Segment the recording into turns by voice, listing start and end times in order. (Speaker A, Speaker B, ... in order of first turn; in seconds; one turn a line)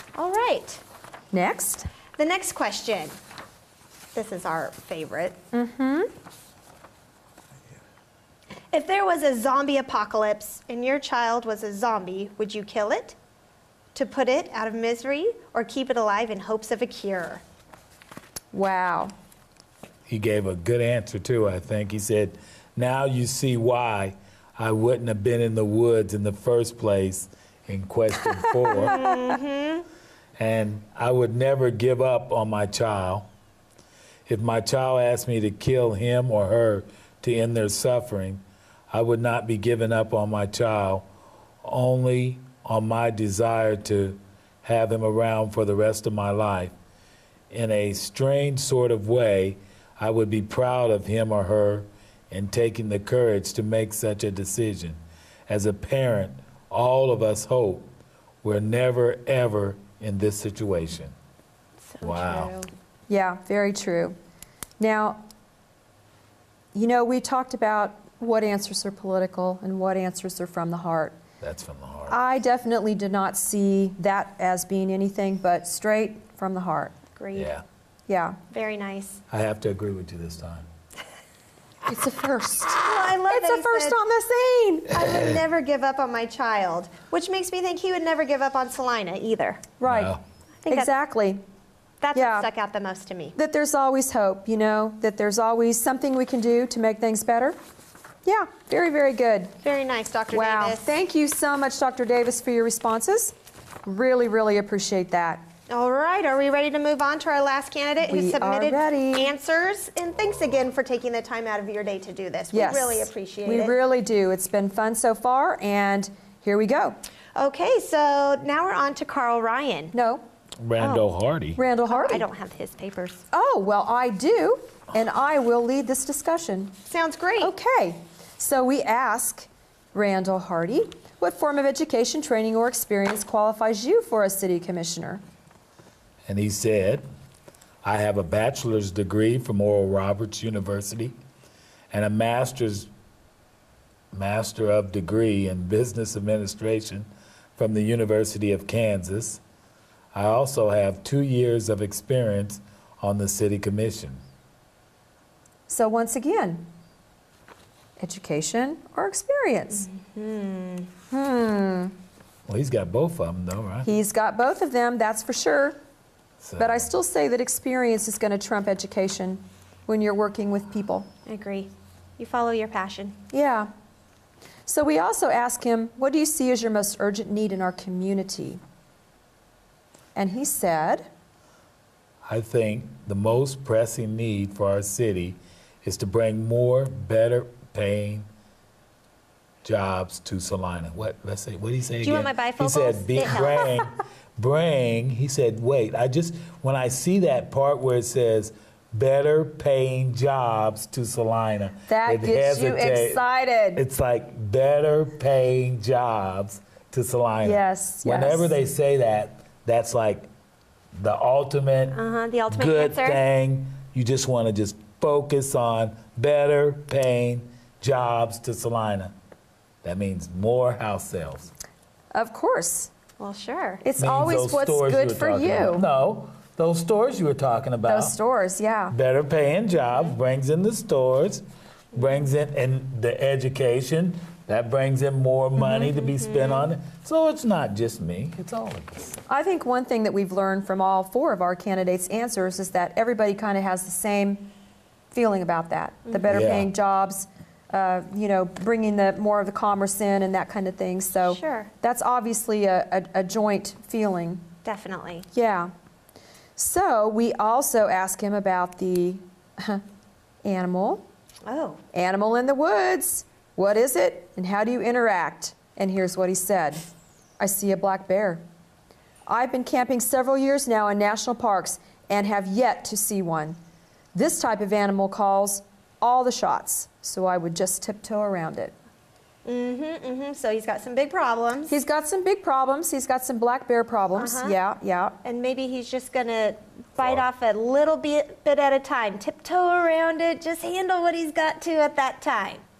Speaker A: 0.1-0.8
Speaker B: 1.3-1.9
Speaker A: 2.2-3.1
Speaker A: 4.1-5.4
Speaker B: 5.5-6.1
Speaker A: 8.7-13.2
Speaker A: 13.9-17.4
Speaker B: 18.5-19.1
Speaker C: 20.1-28.9
Speaker B: 28.4-29.1
Speaker A: 28.8-29.9
Speaker C: 30.4-33.3
Speaker C: 34.3-41.1
Speaker C: 41.6-46.7
Speaker C: 47.5-57.9
Speaker C: 58.4-61.1
Speaker A: 61.8-62.7
Speaker C: 62.0-62.5
Speaker B: 63.1-64.2
Speaker B: 64.8-65.2
Speaker B: 66.7-71.2
Speaker C: 71.4-72.2
Speaker B: 72.1-76.9
Speaker A: 77.2-77.5
Speaker C: 77.3-77.6
Speaker B: 78.1-78.4
Speaker A: 78.5-79.2
Speaker C: 79.3-80.7
Speaker B: 81.9-85.0
Speaker A: 82.7-84.0
Speaker A: 84.9-89.7
Speaker B: 89.8-90.2
Speaker C: 89.8-90.2
Speaker A: 90.6-90.9
Speaker B: 90.7-91.4
Speaker A: 92.0-93.3
Speaker B: 92.1-92.5
Speaker B: 93.4-97.6
Speaker B: 98.2-99.5
Speaker A: 99.6-100.9
Speaker B: 100.3-103.3
Speaker B: 103.8-105.4
Speaker A: 105.7-113.8
Speaker B: 108.0-109.3
Speaker B: 112.5-117.0
Speaker A: 117.3-119.9
Speaker B: 119.9-120.2
Speaker C: 120.6-121.6
Speaker A: 120.8-121.1
Speaker B: 121.6-122.3
Speaker A: 121.9-123.2
Speaker B: 123.3-126.7
Speaker A: 126.9-127.5
Speaker B: 127.4-135.2
Speaker C: 136.3-137.1
Speaker C: 137.8-141.2
Speaker C: 141.9-142.9
Speaker C: 144.1-149.4
Speaker C: 150.1-154.2
Speaker B: 155.7-156.7
Speaker B: 158.0-159.9
Speaker A: 159.7-160.9
Speaker B: 161.1-161.9
Speaker C: 162.5-163.9
Speaker B: 163.8-165.8
Speaker C: 166.4-166.9
Speaker B: 166.6-171.1
Speaker A: 171.3-173.2
Speaker B: 173.3-173.7
Speaker B: 174.7-178.6
Speaker B: 180.2-181.1
Speaker C: 182.3-188.3
Speaker C: 189.6-203.2
Speaker A: 192.0-193.9
Speaker B: 201.9-203.8
Speaker C: 203.8-210.3
Speaker B: 207.4-208.6
Speaker C: 211.0-211.9
Speaker A: 211.9-213.2
Speaker C: 212.5-219.1
Speaker C: 219.8-221.5
Speaker B: 222.1-222.9
Speaker A: 223.2-223.8
Speaker B: 223.8-225.9
Speaker C: 224.0-228.2
Speaker B: 227.9-228.9
Speaker C: 228.9-239.2
Speaker A: 229.9-230.2
Speaker A: 235.6-236.7
Speaker B: 239.3-244.5
Speaker B: 245.1-254.4
Speaker C: 246.3-246.7
Speaker A: 251.2-251.7
Speaker A: 254.6-255.2
Speaker B: 255.3-255.7
Speaker B: 256.6-259.8
Speaker B: 260.4-261.1
Speaker A: 261.5-261.8
Speaker B: 261.9-266.8
Speaker B: 267.4-268.4
Speaker B: 269.3-273.6
Speaker B: 274.1-278.7
Speaker A: 279.4-281.7
Speaker B: 281.7-285.2
Speaker A: 284.2-284.6
Speaker A: 285.2-292.6